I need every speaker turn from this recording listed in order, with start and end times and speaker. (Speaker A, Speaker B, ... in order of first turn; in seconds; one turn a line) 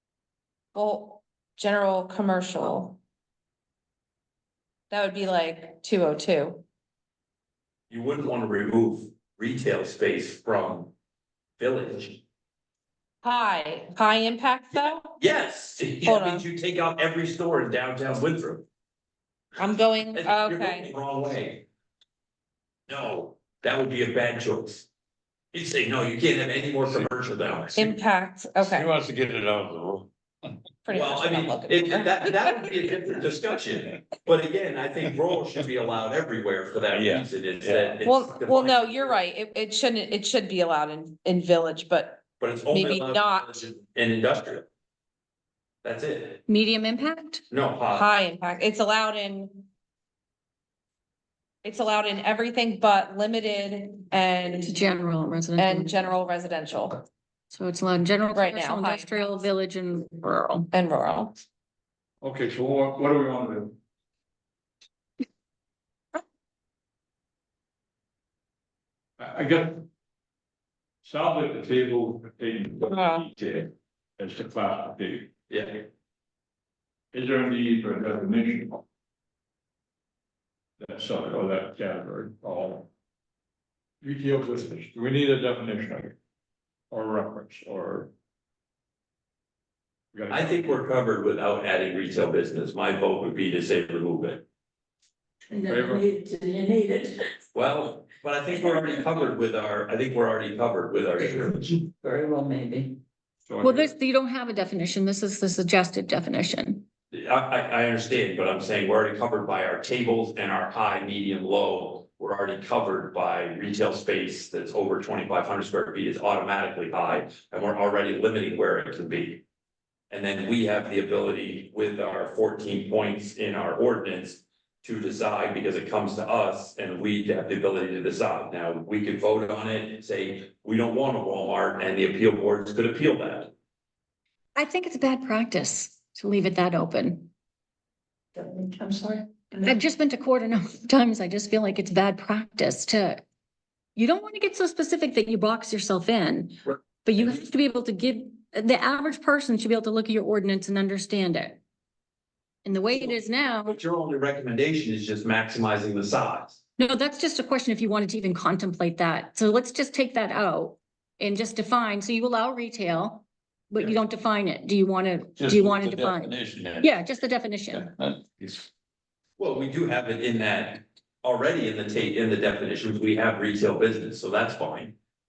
Speaker A: 0.7-3.0
Speaker A: 4.9-6.6
Speaker B: 7.9-10.9
Speaker B: 11.6-12.2
Speaker A: 13.2-15.2
Speaker B: 15.2-18.6
Speaker A: 16.0-16.4
Speaker A: 19.6-20.9
Speaker B: 20.1-21.6
Speaker B: 22.9-24.9
Speaker B: 25.5-28.0
Speaker A: 27.8-28.9
Speaker C: 28.6-30.1
Speaker A: 30.9-32.5
Speaker B: 30.9-39.2
Speaker C: 36.9-38.0
Speaker A: 38.0-43.7
Speaker B: 42.4-44.7
Speaker B: 45.8-46.4
Speaker D: 46.5-47.4
Speaker B: 47.5-48.1
Speaker A: 47.9-49.7
Speaker A: 51.6-54.8
Speaker D: 54.6-56.1
Speaker A: 55.6-57.0
Speaker D: 57.5-60.7
Speaker A: 58.3-59.1
Speaker A: 60.7-61.4
Speaker E: 62.2-63.8
Speaker E: 69.2-69.9
Speaker E: 71.0-75.3
Speaker A: 72.8-73.3
Speaker B: 75.5-75.8
Speaker E: 77.1-78.8
Speaker E: 80.8-82.9
Speaker E: 84.0-86.2
Speaker E: 86.9-88.1
Speaker E: 90.1-90.8
Speaker B: 90.3-94.4
Speaker D: 95.5-96.0
Speaker E: 95.7-96.0
Speaker F: 95.9-97.2
Speaker B: 97.5-101.8
Speaker F: 101.5-103.0
Speaker E: 103.5-103.9
Speaker D: 103.6-106.9
Speaker B: 107.1-119.4
Speaker B: 120.1-133.5
Speaker D: 134.6-137.3
Speaker F: 138.4-139.2
Speaker D: 139.6-143.2
Speaker D: 144.0-151.6
Speaker D: 152.6-153.8
Speaker B: 152.9-156.6
Speaker D: 156.8-167.9
Speaker C: 165.4-166.9
Speaker C: 167.7-168.7
Speaker B: 169.4-174.9